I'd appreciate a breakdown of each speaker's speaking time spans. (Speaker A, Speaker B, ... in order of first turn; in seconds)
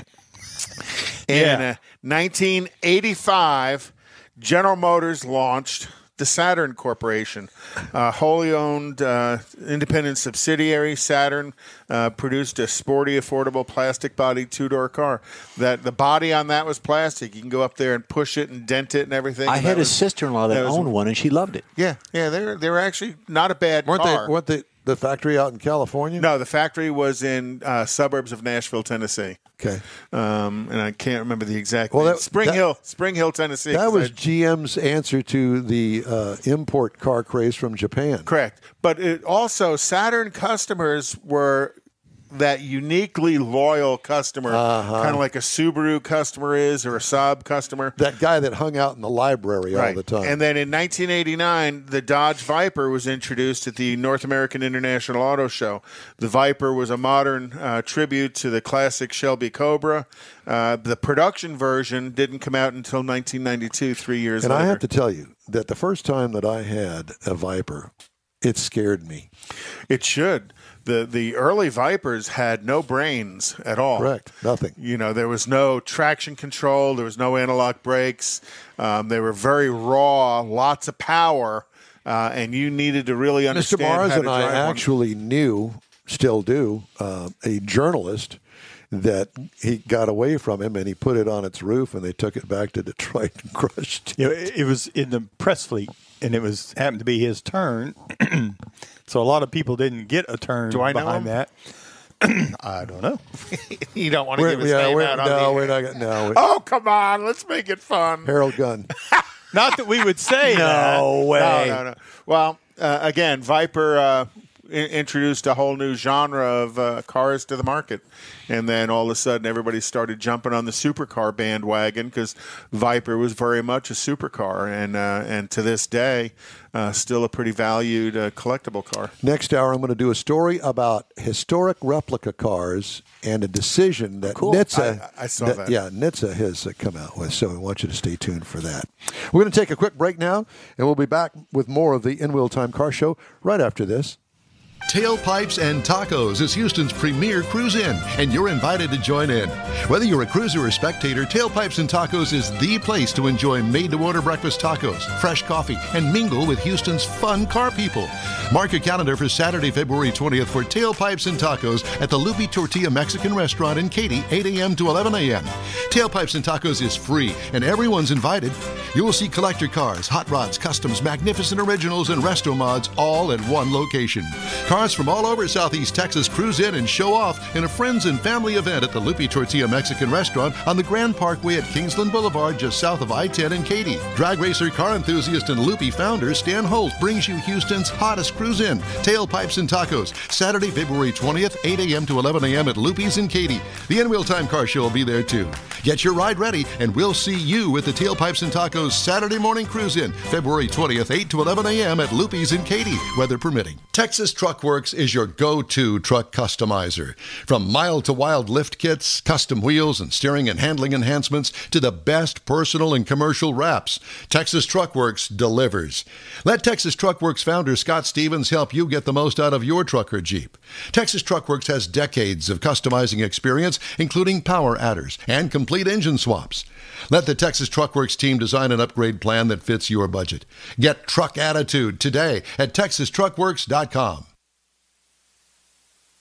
Speaker A: 1.3-20.9, 21.8-24.3, 26.2-29.4, 30.1-34.1, 38.2-41.8, 42.3-48.0, 49.7-64.8, 69.9-74.2, 74.8-84.8, 100.7-101.3, 103.5-108.4, 110.4-129.1, 134.7-135.8
Speaker B: 1.3-1.6, 94.2-101.5, 102.2-103.2, 109.5-111.8
Speaker C: 19.4-21.6, 111.3-111.7, 134.3-134.6
Speaker D: 23.9-26.2, 31.9-32.6, 33.7-38.3, 44.5-45.2, 48.0-50.3, 64.4-67.9, 68.4-69.3, 74.0-74.8, 83.5-88.4, 88.9-94.2, 104.4-106.4, 108.2-108.9, 129.2-144.2, 144.9-234.3